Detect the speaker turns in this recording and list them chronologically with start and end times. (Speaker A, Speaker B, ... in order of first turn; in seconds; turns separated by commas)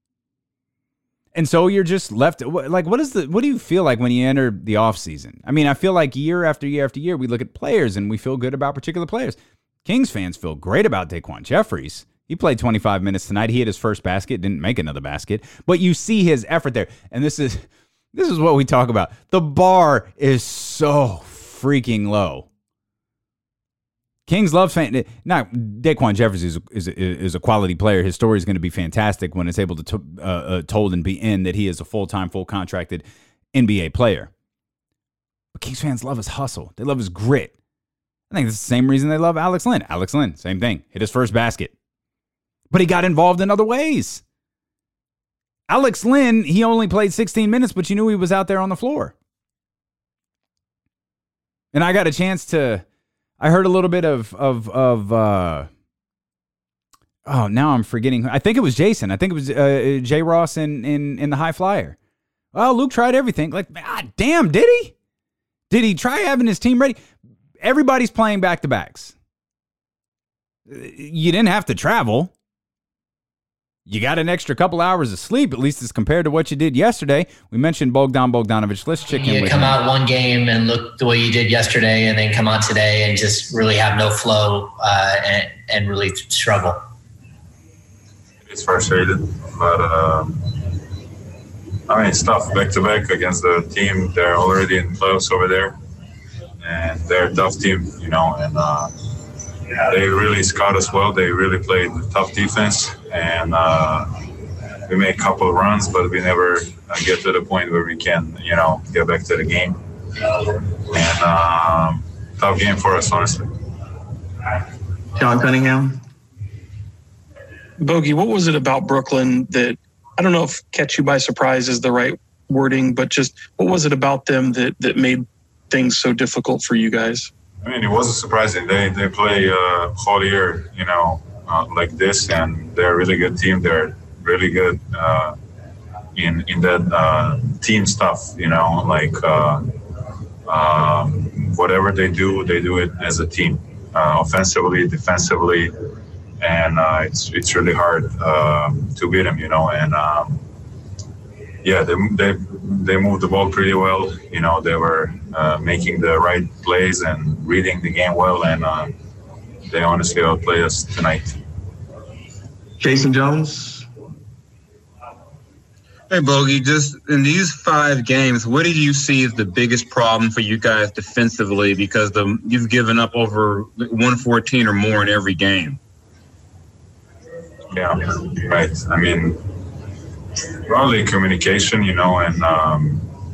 Speaker A: 1.4-22.5, Speaker A: 24.3-34.3, Speaker A: 35.5-37.5, Speaker A: 38.3-41.7, Speaker A: 42.7-44.2, Speaker A: 45.7-49.1, Speaker A: 51.7-52.8, Speaker A: 53.4-55.7, Speaker A: 57.3-62.0, Speaker A: 62.5-64.9, Speaker A: 65.7-67.0, Speaker A: 67.6-69.1, Speaker A: 70.7-72.3, Speaker A: 73.9-79.8, Speaker B: 79.1-86.8, Speaker C: 88.5-90.7, Speaker C: 91.9-95.8, Speaker C: 96.6-98.9, Speaker C: 99.8-104.3, Speaker C: 104.9-113.5, Speaker D: 115.2-116.0, Speaker E: 117.8-127.3, Speaker C: 127.6-135.4, Speaker C: 136.2-139.7, Speaker C: 140.5-145.7, Speaker C: 146.4-150.4, Speaker C: 151.6-158.9, Speaker C: 159.7-161.4, Speaker D: 162.8-163.9, Speaker F: 166.1-175.8, Speaker C: 177.7-179.4, Speaker C: 180.7-183.1